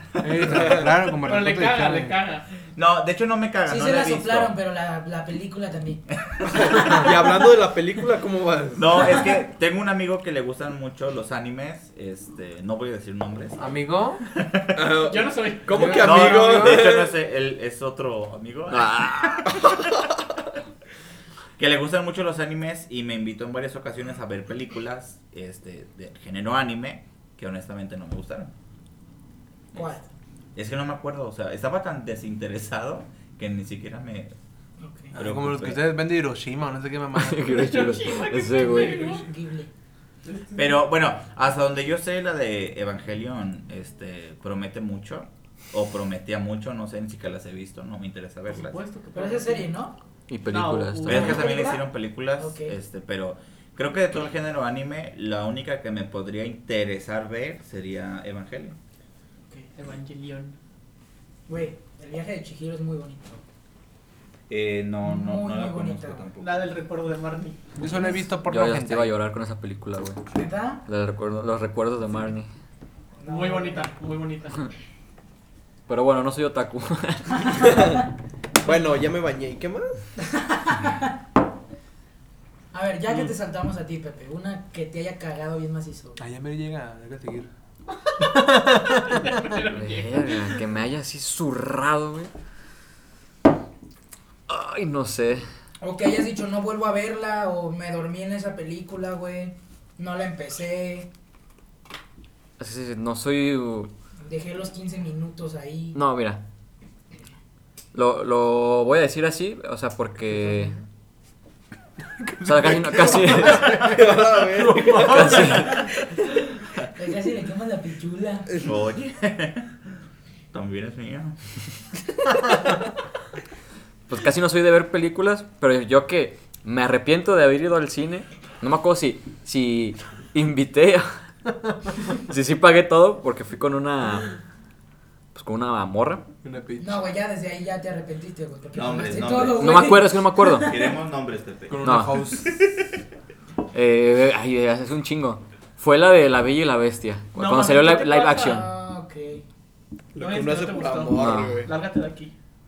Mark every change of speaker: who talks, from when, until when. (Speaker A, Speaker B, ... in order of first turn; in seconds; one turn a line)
Speaker A: 0.2-2.2
Speaker B: 0.3-1.0
Speaker C: 1.2-2.5
Speaker D: 2.8-4.5
Speaker E: 3.6-6.0
Speaker D: 6.2-7.0
Speaker B: 6.5-9.0
Speaker D: 8.8-13.7
Speaker A: 13.6-14.2
Speaker D: 14.3-14.8
Speaker B: 14.7-17.1
Speaker C: 15.1-16.6
Speaker A: 15.7-16.8
Speaker D: 16.0-19.7
Speaker F: 18.7-19.5
Speaker D: 21.6-28.5
Speaker E: 29.7-30.1
Speaker D: 30.6-34.3
Speaker E: 34.8-35.1
Speaker D: 35.1-35.9
Speaker A: 35.1-37.7
Speaker F: 37.2-39.2
Speaker C: 37.5-39.2
Speaker E: 38.6-39.7
Speaker C: 40.2-40.8
Speaker D: 40.5-48.8
Speaker C: 48.5-49.7
Speaker E: 49.1-50.0
Speaker F: 50.3-51.4
Speaker C: 50.5-51.5
Speaker D: 51.0-58.8
Speaker E: 51.1-51.8
Speaker E: 52.4-52.7
Speaker C: 59.7-60.5
Speaker E: 61.5-63.4
Speaker D: 64.5-66.7
Speaker E: 65.0-66.3
Speaker C: 66.4-67.6
Speaker A: 67.8-69.1
Speaker E: 67.9-68.2
Speaker F: 68.5-70.2
Speaker E: 70.3-70.8
Speaker F: 70.8-72.5
Speaker E: 73.2-73.9
Speaker C: 73.2-74.7
Speaker F: 75.9-77.8
Speaker B: 77.6-78.0
Speaker B: 78.6-80.0
Speaker E: 80.3-81.1
Speaker E: 82.7-86.2
Speaker A: 86.2-87.5
Speaker A: 88.2-89.4
Speaker C: 89.0-90.5
Speaker F: 89.7-92.3
Speaker F: 94.5-95.4
Speaker E: 95.8-101.1
Speaker F: 102.6-103.9
Speaker E: 104.2-106.0
Speaker F: 105.9-106.4
Speaker F: 107.9-110.7
Speaker A: 112.2-115.3
Speaker F: 112.4-113.7
Speaker B: 113.7-115.8
Speaker F: 115.0-115.9
Speaker E: 116.9-118.5
Speaker D: 118.6-119.8
Speaker D: 120.5-121.6
Speaker F: 124.1-131.1
Speaker F: 132.1-134.3
Speaker F: 135.3-136.2
Speaker A: 136.4-136.9
Speaker E: 136.8-140.8
Speaker D: 138.7-142.8
Speaker F: 139.4-140.8
Speaker A: 141.7-142.5
Speaker F: 141.8-142.2
Speaker F: 143.7-148.7
Speaker C: 147.3-148.6
Speaker E: 148.4-149.4
Speaker B: 150.1-151.7
Speaker C: 150.2-152.3
Speaker F: 151.1-151.6